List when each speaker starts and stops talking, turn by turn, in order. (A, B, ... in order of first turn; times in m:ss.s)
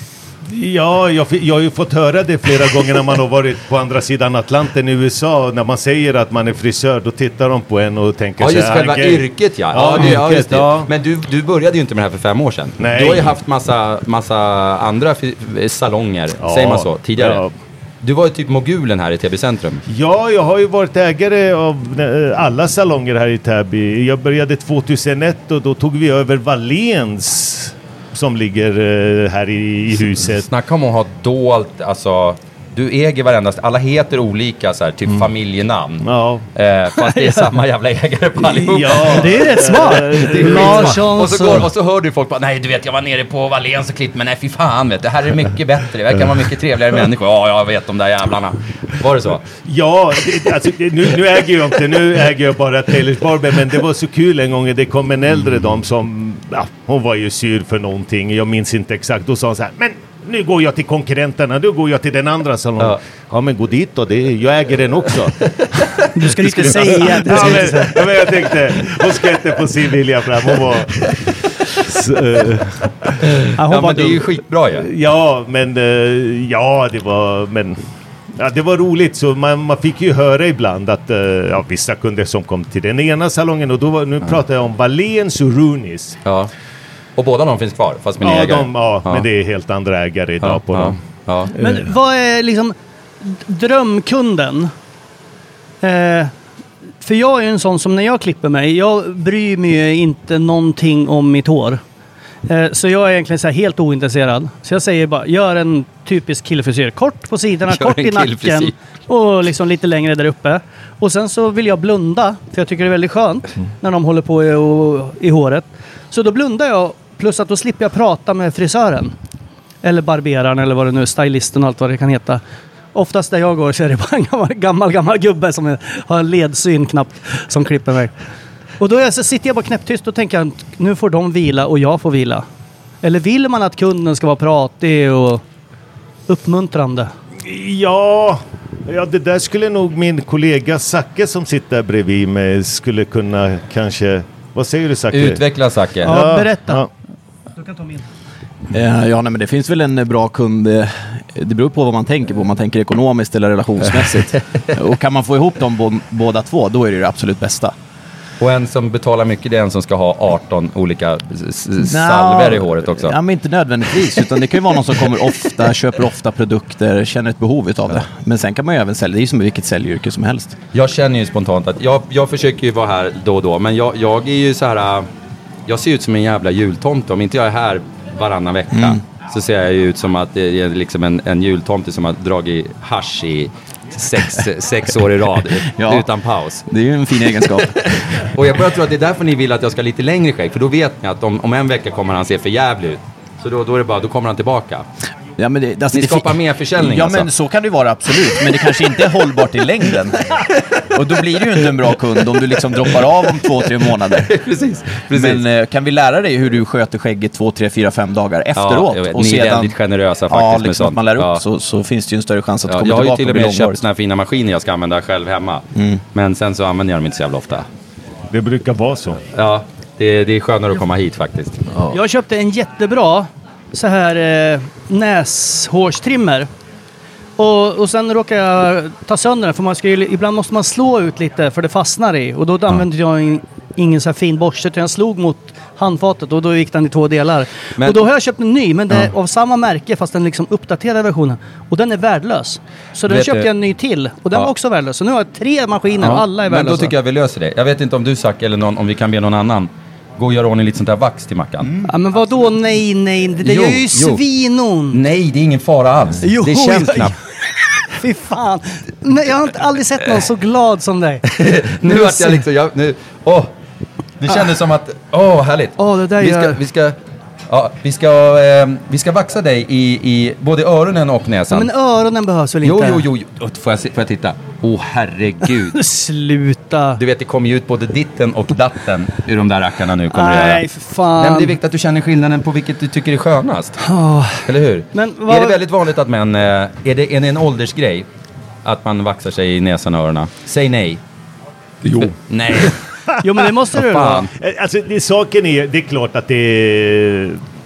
0:00.5-0:10.9 A
0:08.4-0:17.4 B
0:12.8-0:13.3 A
0:16.4-0:17.5 A
0:18.0-0:19.8 B
0:19.9-0:30.4 A
0:30.4-0:49.4 B
0:36.0-0:36.4 A
0:37.0-0:37.4 C
0:38.4-0:41.0 A
0:39.0-0:41.7 C
0:49.6-1:06.0 A
1:05.6-1:08.0 B
1:06.1-1:07.9 C
1:06.5-1:11.2 A
1:11.8-1:13.2 A
1:13.6-1:14.2 C
1:13.7-1:14.9 B
1:14.8-1:17.8 A
1:18.4-1:26.2 A
1:26.2-1:26.5 B
1:27.2-1:29.2 B
1:28.2-1:31.0 A
1:30.4-1:31.5 B
1:31.5-1:34.7 C
1:31.6-1:31.8 A
1:35.8-1:36.3 C
1:37.0-1:41.8 C
1:42.5-1:59.1 C
1:47.7-1:48.7 B
1:59.8-2:02.4 C
2:02.9-2:08.1 C
2:08.8-2:12.4 C
2:13.0-2:15.4 C
2:16.3-2:17.1 C
2:17.4-2:25.4 A
2:25.1-2:26.2 B
2:26.0-2:26.9 A
2:26.0-2:26.8 C
2:27.6-2:28.0 C
2:28.7-2:37.7 D
2:38.4-2:43.1 B
2:41.8-2:50.6 D
2:50.7-2:55.1 B
2:55.7-3:06.7 B
2:58.7-2:59.0 D
3:05.6-3:06.0 D
3:06.7-3:08.2 D
3:07.4-3:14.8 B
3:15.4-3:20.4 D
3:15.9-3:17.3 B
3:20.9-3:24.3 D
3:24.1-3:25.4 B
3:25.1-3:29.7 D
3:28.5-3:31.4 B
3:30.3-3:33.8 D
3:32.7-3:37.6 B
3:38.3-3:39.2 A
3:39.3-3:41.6 B
3:41.9-3:46.5 C
3:47.4-4:06.9 C
3:57.8-3:58.0 B
4:03.1-4:03.5 B
4:06.0-4:11.8 B
4:11.8-4:15.0 C
4:13.4-4:14.2 B
4:14.9-4:17.1 B
4:16.2-4:17.2 C
4:17.9-4:21.2 C
4:21.2-4:23.5 B
4:21.8-4:22.4 C
4:24.2-4:27.0 B
4:25.8-4:26.6 C
4:27.5-4:31.7 B
4:31.5-4:33.0 C
4:32.6-4:35.8 B
4:35.7-4:37.0 C
4:37.0-4:40.6 B
4:40.1-4:41.6 C
4:41.2-4:43.8 B
4:43.8-4:45.6 C
4:44.4-4:48.1 B
4:48.6-4:51.0 B
4:51.8-4:52.8 B
4:53.2-4:54.3 C
4:53.7-4:54.3 B
4:54.4-4:57.4 A